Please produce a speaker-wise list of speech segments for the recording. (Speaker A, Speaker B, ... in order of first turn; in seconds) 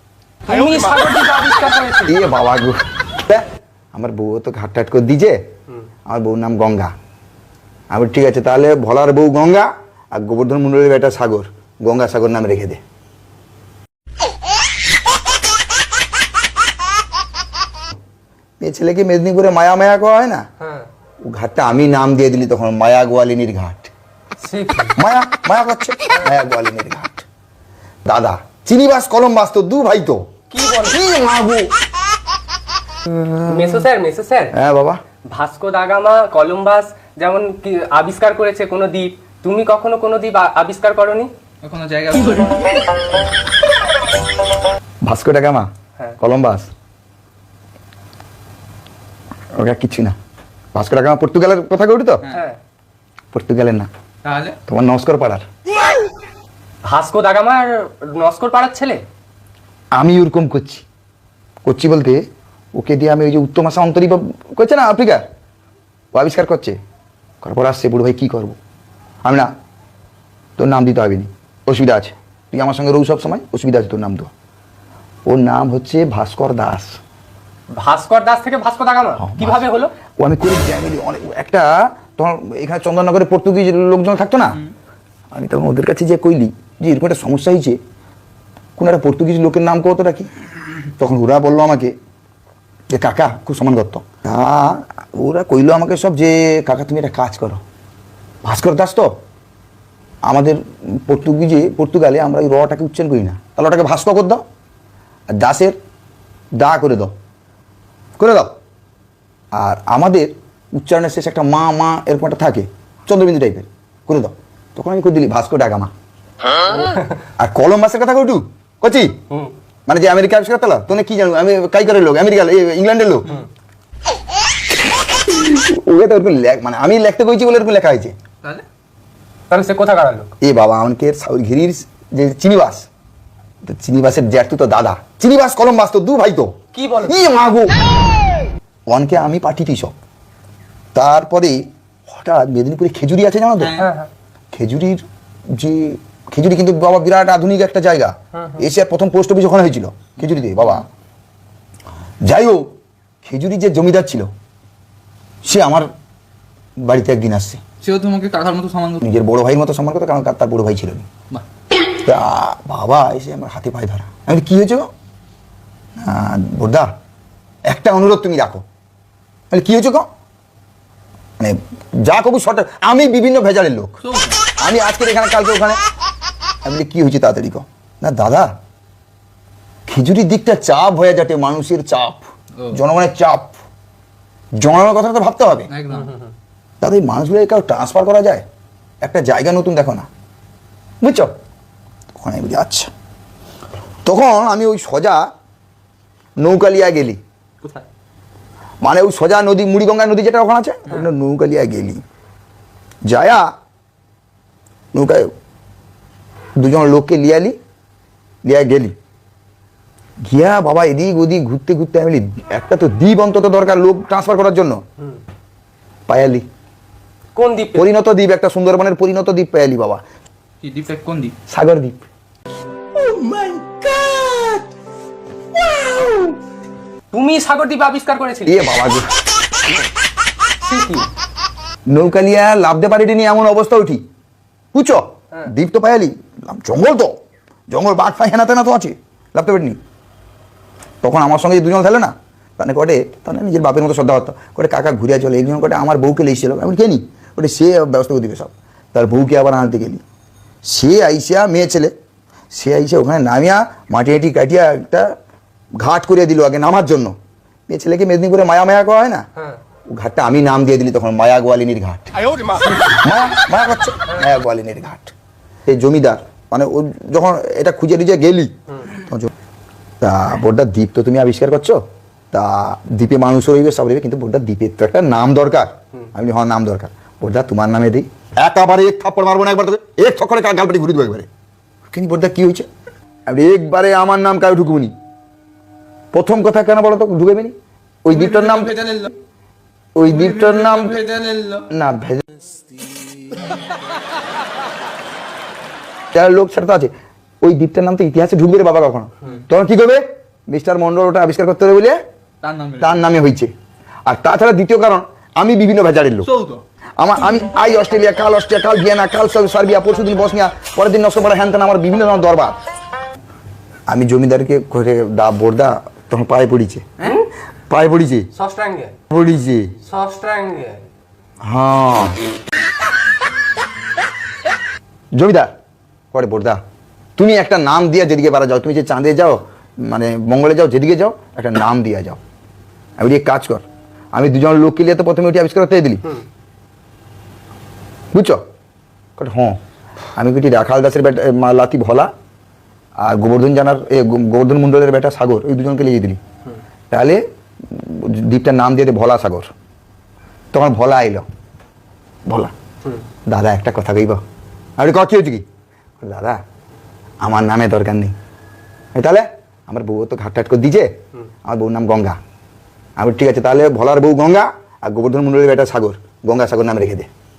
Speaker A: 0.5-2.1, 20.6-20.9, 24.4-24.9, 30.5-31.0, 33.5-34.5, 35.3-41.3, 52.3-52.6, 56.8-59.0, 77.7-79.9, 116.7-117.1, 129.5-130.3, 136.7-137.2, 143.8-144.1, 148.3-148.6, 185.9-186.3, 217.3-217.9, 223.0-224.6, 225.8-226.3, 227.1-228.6, 230.6-231.1, 317.0-317.3, 318.3-319.0, 319.8-320.8
Speaker B: 2.0-5.4, 6.1-6.9, 7.9-12.8, 18.6-20.4, 21.2-23.9, 24.9-27.2, 28.1-30.2, 30.8-31.7, 33.1-33.8, 34.5-35.0, 45.0-46.7, 49.5-50.1, 50.7-52.2, 53.3-53.9, 54.6-55.4, 59.9-60.8, 61.6-62.2, 62.7-65.2, 66.1-66.8, 67.4-68.6, 69.2-69.5, 70.6-74.3, 75.3-77.0, 79.2-79.6, 80.2-84.6, 85.3-87.8, 88.8-90.3, 91.0-91.9, 92.9-97.6, 98.4-99.1, 100.3-104.4, 105.3-105.8, 106.6-107.1, 108.2-108.5, 109.5-115.9, 117.4-119.2, 119.9-123.4, 125.2-128.1, 130.4-132.9, 133.6-137.7, 138.9-139.9, 140.9-143.8, 144.5-150.8, 152.2-152.7, 153.2-154.3, 155.4-155.9, 156.8-157.6, 159.0-161.1, 162.0-164.9, 166.0-166.9, 167.7-168.6, 169.5-170.1, 171.4-174.0, 174.6-175.8, 176.6-178.5, 179.9-183.6, 184.6-185.7, 186.8-188.4, 189.0-190.1, 191.0-191.3, 192.1-192.9, 194.0-195.2, 196.4-197.2, 198.8-202.0, 203.1-203.4, 204.9-205.3, 206.6-207.6, 208.4-208.9, 210.3-214.8, 216.1-216.4, 217.8-220.0, 221.5-222.0, 228.4-229.1, 231.9-234.0, 234.7-237.1, 237.7-239.8, 241.0-250.0, 250.6-251.9, 252.5-255.1, 255.8-257.1, 257.7-259.2, 259.9-262.1, 262.8-265.1, 265.6-269.3, 270.0-271.8, 272.3-281.3, 281.9-282.7, 283.3-284.9, 286.1-288.8, 289.9-291.0, 291.7-292.2, 296.1-296.9, 297.4-302.0, 302.8-303.5, 304.1-306.3, 307.0-312.6, 313.9-318.3, 319.1-319.7, 321.4-322.2, 325.1-325.5, 326.1-326.6, 327.2-332.2, 333.0-336.2, 338.1-338.4, 339.2-339.6, 340.2-342.1, 343.0-346.2, 346.9-349.5, 350.5-351.2, 352.3-352.5, 353.3-354.2, 354.8-355.4, 356.0-356.4, 357.2-358.1, 358.9-360.9, 361.4-362.2, 363.0-367.1
Speaker C: 41.6-42.8, 54.2-54.6, 157.8-159.0, 174.0-174.4, 185.7-186.1, 220.6-221.3, 288.1-289.1, 290.0-291.7, 302.4-303.0, 306.2-306.6